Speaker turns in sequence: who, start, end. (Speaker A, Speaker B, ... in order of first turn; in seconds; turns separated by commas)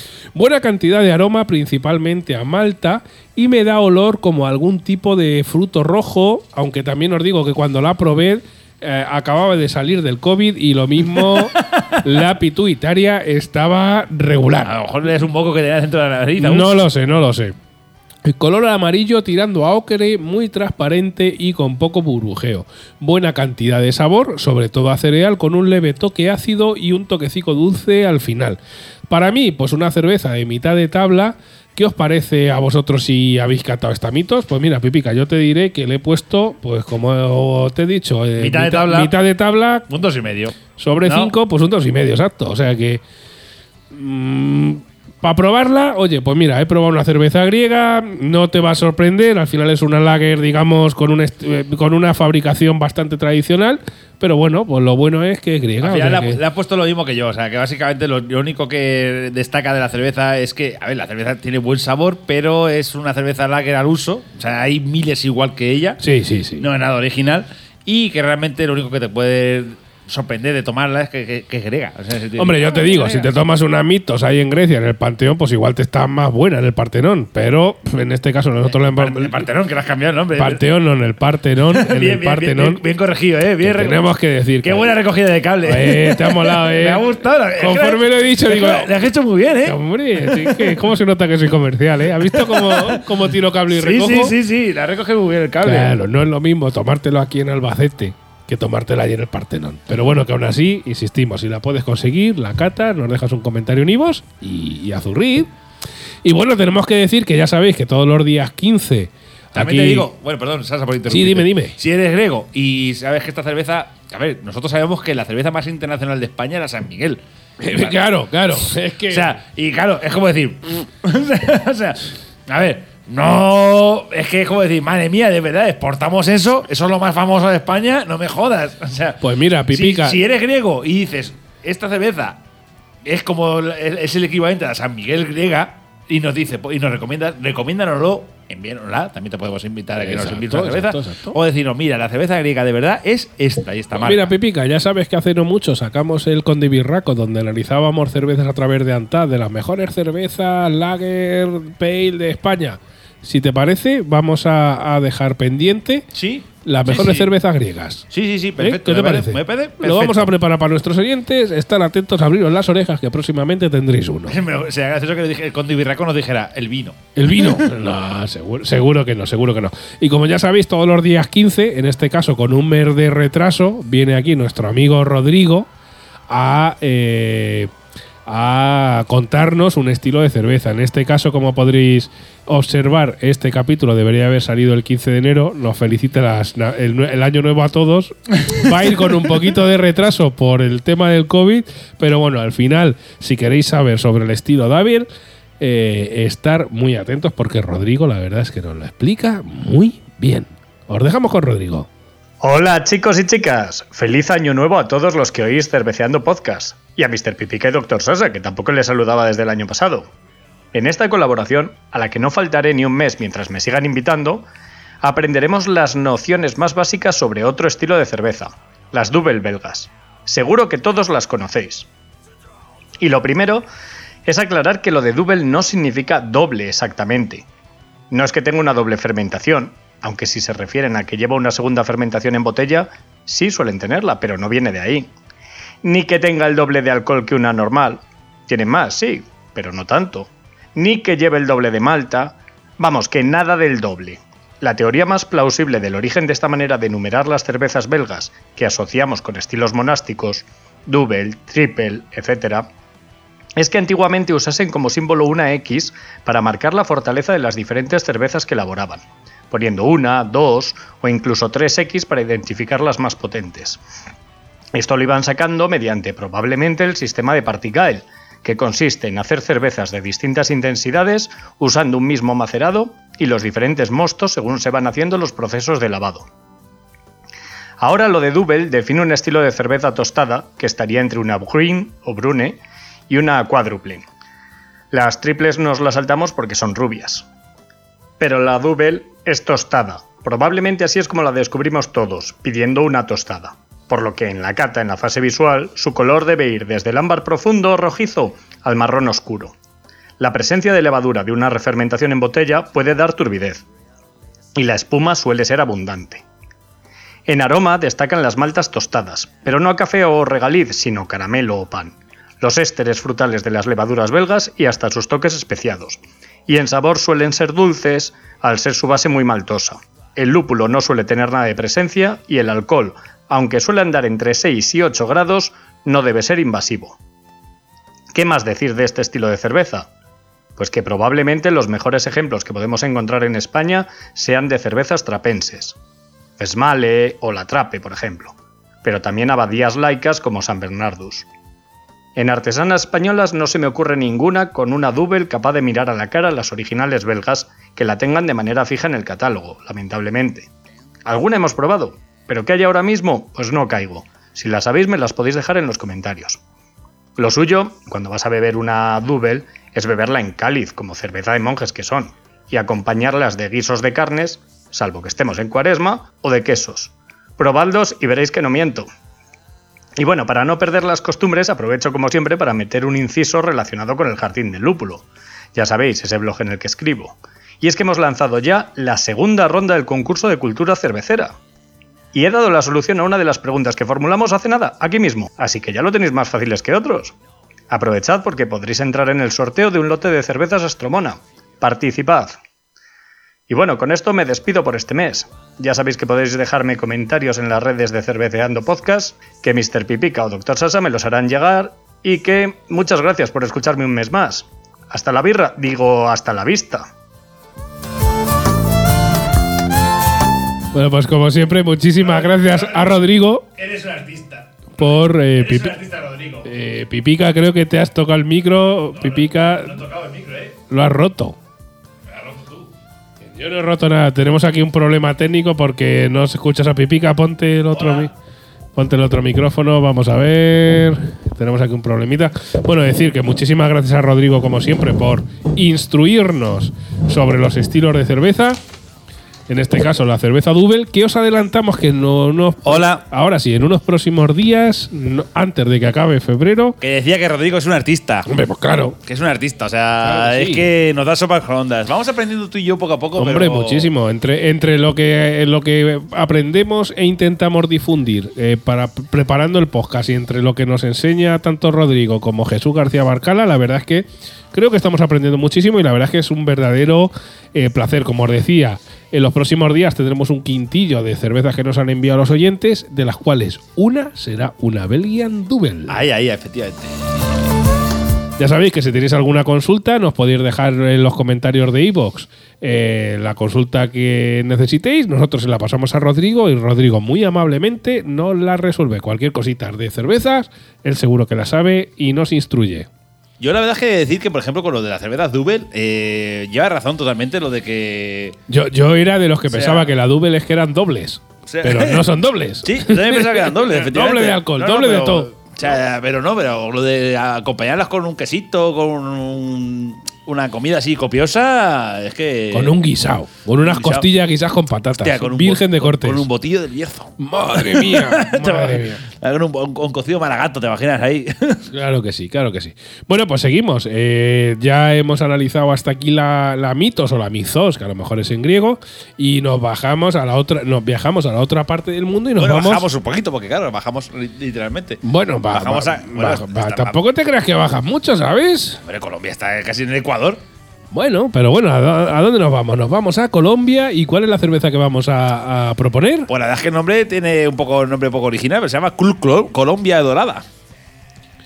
Speaker A: 0.3-14.7, Speaker B: 11.1-12.0, Speaker B: 14.6-16.9, Speaker A: 16.4-17.6, Speaker A: 18.2-39.9, Speaker B: 38.4-39.1, Speaker B: 39.9-41.3, Speaker A: 40.8-43.0, Speaker A: 43.9-56.4, Speaker B: 55.8-66.0, Speaker A: 66.0-66.7, Speaker B: 66.6-73.3, Speaker A: 72.4-79.5, Speaker B: 78.7-80.6, Speaker A: 80.4-82.8, Speaker B: 81.7-84.0, Speaker A: 83.6-84.9, Speaker B: 84.6-90.8, Speaker A: 85.6-88.9, Speaker A: 89.6-94.3, Speaker B: 92.1-93.1, Speaker B: 93.7-96.0, Speaker A: 95.6-105.5, Speaker A: 106.2-110.1, Speaker B: 109.5-117.2, Speaker A: 111.1-111.8, Speaker A: 117.6-119.3, Speaker B: 117.7-118.0, Speaker B: 118.6-132.4, Speaker A: 129.2-130.2, Speaker B: 133.1-144.3, Speaker A: 140.0-141.4, Speaker A: 143.9-156.1, Speaker B: 156.1-157.3, Speaker A: 156.6-158.1, Speaker B: 158.1-160.3, Speaker A: 158.6-164.4, Speaker B: 164.3-167.6, Speaker A: 167.2-175.7, Speaker A: 176.3-177.7, Speaker A: 178.3-195.1, Speaker A: 195.6-201.9, Speaker C: 202.4-210.1, Speaker C: 210.7-214.5, Speaker C: 215.0-221.9, Speaker C: 223.0-223.7, Speaker C: 224.3-227.4, Speaker C: 228.1-235.1, Speaker C: 235.8-252.7, Speaker C: 253.6-263.8, Speaker C: 264.7-276.3, Speaker C: 277.8-284.1, Speaker C: 284.9-287.2, Speaker C: 288.2-299.5, Speaker C: 300.2-303.6, Speaker C: 304.6-306.2, Speaker C: 307.3-327.0, Speaker C: 328.1-329.9, Speaker C: 330.6-335.8, Speaker C: 336.4-341.3, Speaker C: 342.1-350.5, Speaker C: 351.1-356.4, Speaker C: 357.2-368.9, Speaker C: 370.0-381.4, Speaker C: 382.1-387.1, Speaker C: 387.7-392.4, Speaker C: 393.5-406.9, Speaker A: 410.7-413.4, Speaker B: 412.0-413.0, Speaker B: 413.6-416.5, Speaker A: 414.8-415.8, Speaker A: 416.4-419.8, Speaker B: 418.9-420.6, Speaker A: 420.7-421.4, Speaker B: 422.1-422.7, Speaker A: 423.2-428.1, Speaker B: 427.7-428.1, Speaker A: 428.8-438.6, Speaker A: 439.5-446.8, Speaker B: 442.6-443.0, Speaker B: 446.8-448.3, Speaker A: 448.3-449.0, Speaker B: 449.1-453.9, Speaker A: 450.0-450.7, Speaker A: 453.2-476.0, Speaker B: 475.9-477.0, Speaker A: 478.4-492.9, Speaker B: 493.4-498.4, Speaker A: 498.5-505.3, Speaker B: 499.5-499.9, Speaker B: 501.5-502.1, Speaker B: 502.6-512.8, Speaker A: 512.5-516.3, Speaker B: 513.6-514.1, Speaker B: 515.0-521.7, Speaker A: 517.2-519.0, Speaker A: 521.7-532.9, Speaker B: 532.4-537.0, Speaker A: 535.0-538.8, Speaker B: 538.8-540.4, Speaker A: 540.9-546.3, Speaker B: 546.3-550.5